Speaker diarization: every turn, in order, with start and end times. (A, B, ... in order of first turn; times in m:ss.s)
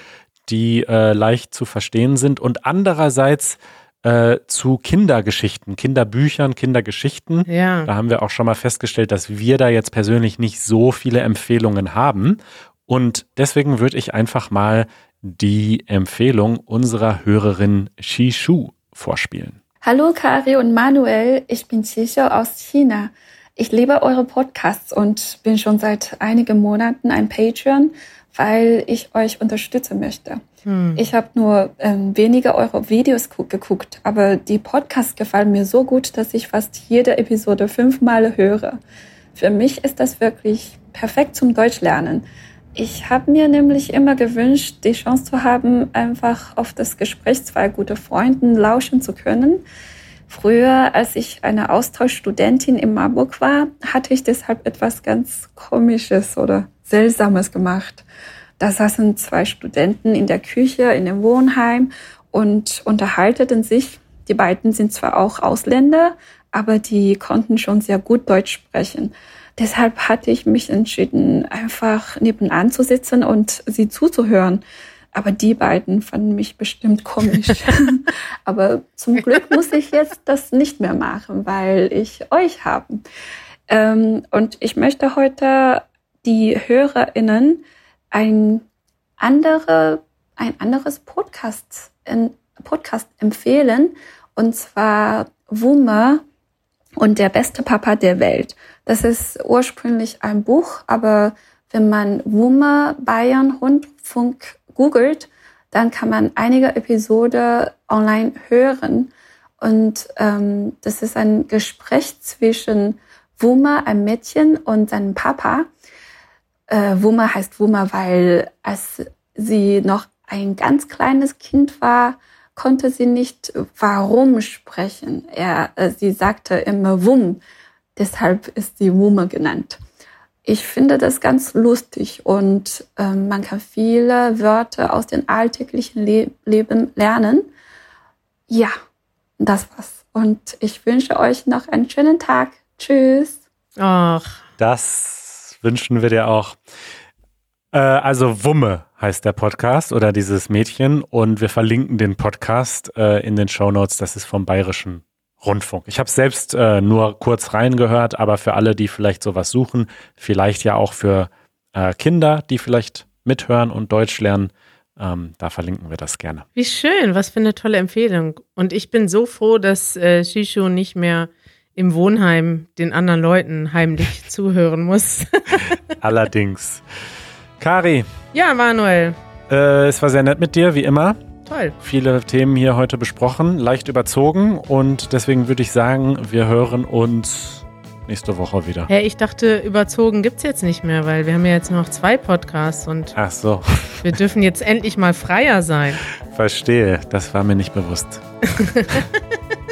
0:00.5-0:19.6 A
0:07.5-0:07.9 B
0:19.8-0:30.4 C
0:30.6-0:31.0 B
0:31.0-0:38.8 C
0:39.3-0:42.2 C
0:42.8-0:49.6 C
0:50.3-0:58.0 C
0:58.6-1:14.6 C
1:15.1-1:23.0 C
1:23.7-1:28.6 C
1:29.2-1:36.2 C
1:37.0-1:55.7 C
1:56.7-2:07.4 C
2:08.0-2:09.8 C
2:10.4-2:17.5 C
2:18.5-2:18.7 C
2:19.4-2:23.4 C
2:23.8-2:24.4 B
2:24.6-2:26.6 A
2:27.7-2:46.4 A
2:46.6-2:55.8 B
2:56.0-2:56.8 A
2:57.6-2:58.1 A
2:58.3-2:59.2 B
2:59.5-3:01.2 A
3:01.5-3:01.8 B
3:01.8-3:08.9 A
3:08.9-3:13.1 B
3:13.1-3:14.2 A
3:14.0-3:16.0 B
3:16.2-3:18.2 A
3:18.5-3:19.1 B